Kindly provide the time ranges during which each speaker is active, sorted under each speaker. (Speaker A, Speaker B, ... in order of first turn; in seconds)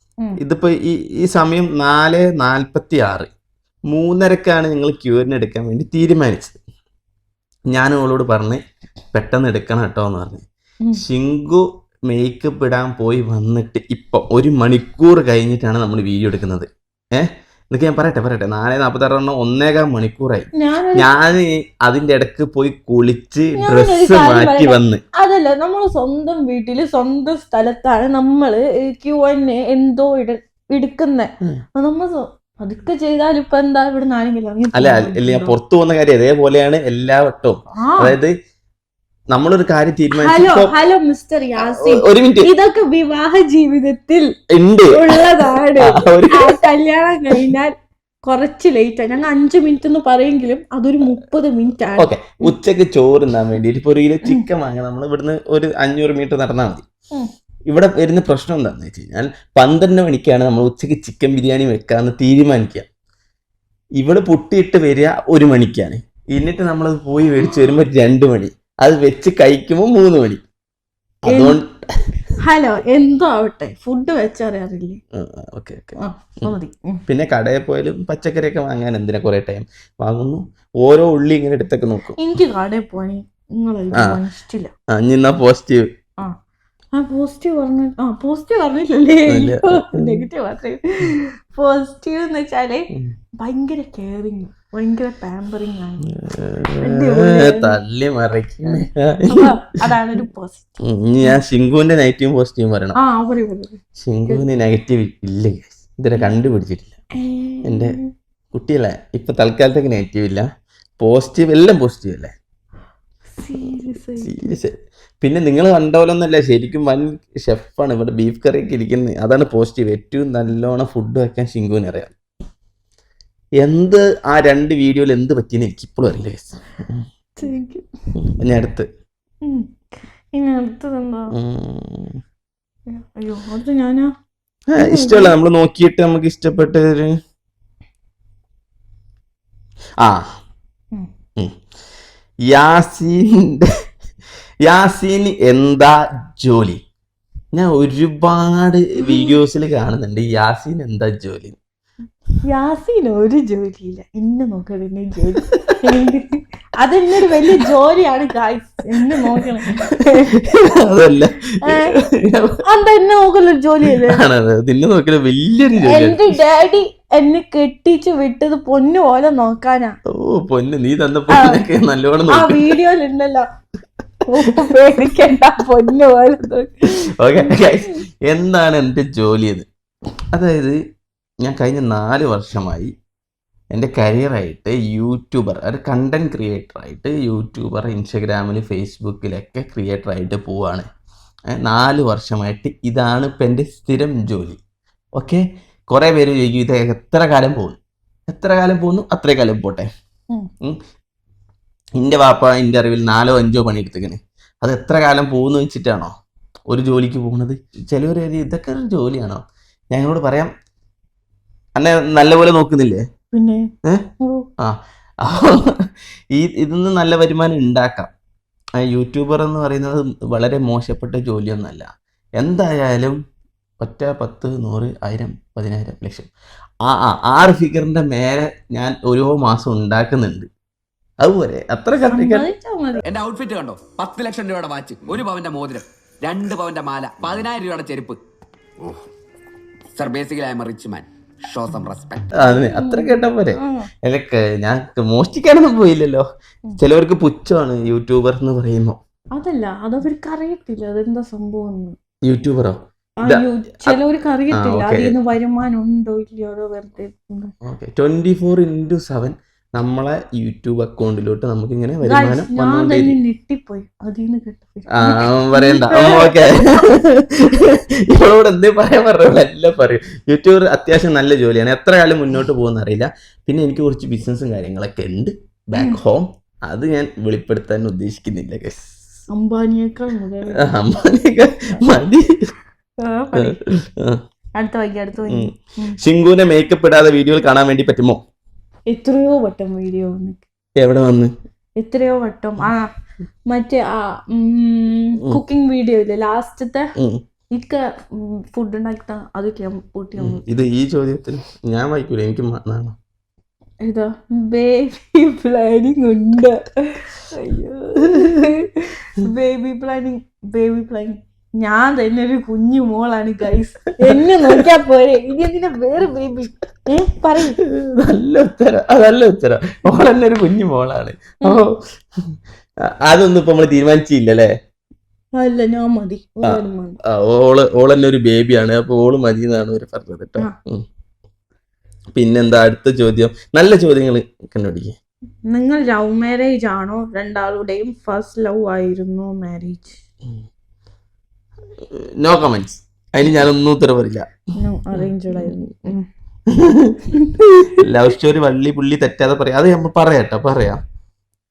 Speaker A: 0.4-3.3, 3.9-6.6, 7.7-8.6, 9.1-25.0, 34.7-38.3, 39.3-40.7, 41.6-42.5, 44.5-46.6, 52.0-56.9, 57.7-62.9, 64.0-70.4, 71.2-72.1, 75.1-76.5, 77.1-82.2, 84.9-85.9, 89.3-90.2, 96.1-99.9, 100.8-103.0, 104.0-107.0, 107.6-108.0, 108.5-110.5, 111.0-112.3, 114.2-122.1, 123.6-127.0, 128.2-128.9, 131.3-132.2, 134.7-137.2, 140.0-140.4, 142.4-143.7, 144.6-146.8, 147.5-151.6, 155.5-155.8, 159.0-162.6, 163.9-166.3, 170.1-172.7, 177.1-179.7, 180.3-180.8, 181.4-182.9, 183.7-190.9, 191.5-194.6, 195.2-197.8, 198.3-199.9, 202.0-206.1, 206.7-210.5, 211.8-213.1, 214.6-218.1, 218.8-223.2, 223.8-226.3, 226.8-230.5, 231.2-232.5, 242.3-246.2, 246.8-249.0, 252.2-255.1, 257.6-263.1, 264.9-279.0, 280.5-282.5, 283.4-284.2, 285.2-288.2, 290.8-291.3, 297.0-297.2, 300.2-302.9, 314.0-314.6, 317.6-324.5, 326.4-330.8, 332.1-335.0, 341.8-345.5, 346.5-350.8
Speaker B: 20.5-21.1, 23.6-35.5, 37.7-38.1, 40.1-44.3, 44.9-52.5, 71.3-71.6, 72.4-75.0, 76.0-77.0, 82.2-84.7, 86.9-96.1, 96.8-97.8, 98.6-101.4, 103.0-104.4, 107.1-108.1, 113.3-114.4, 127.4-127.9, 129.4-131.3, 132.9-134.1, 134.8-135.3, 149.0-149.4, 152.4-160.5, 161.6-161.9, 162.6-164.2, 165.8-169.9, 171.3-171.6, 172.3-173.5, 174.2-177.9, 213.3-214.5, 232.1-233.0, 242.5-243.9, 249.3-252.0, 253.2-257.5, 262.0-267.0, 275.8-276.0, 279.3-280.8, 283.0-283.6, 284.6-286.0, 288.9-290.4, 291.8-292.9, 293.5-296.9, 297.5-300.4, 303.8-317.6, 325.3-327.0, 335.5-340.0, 344.6-346.1
Speaker C: 233.0-238.2, 239.9-242.3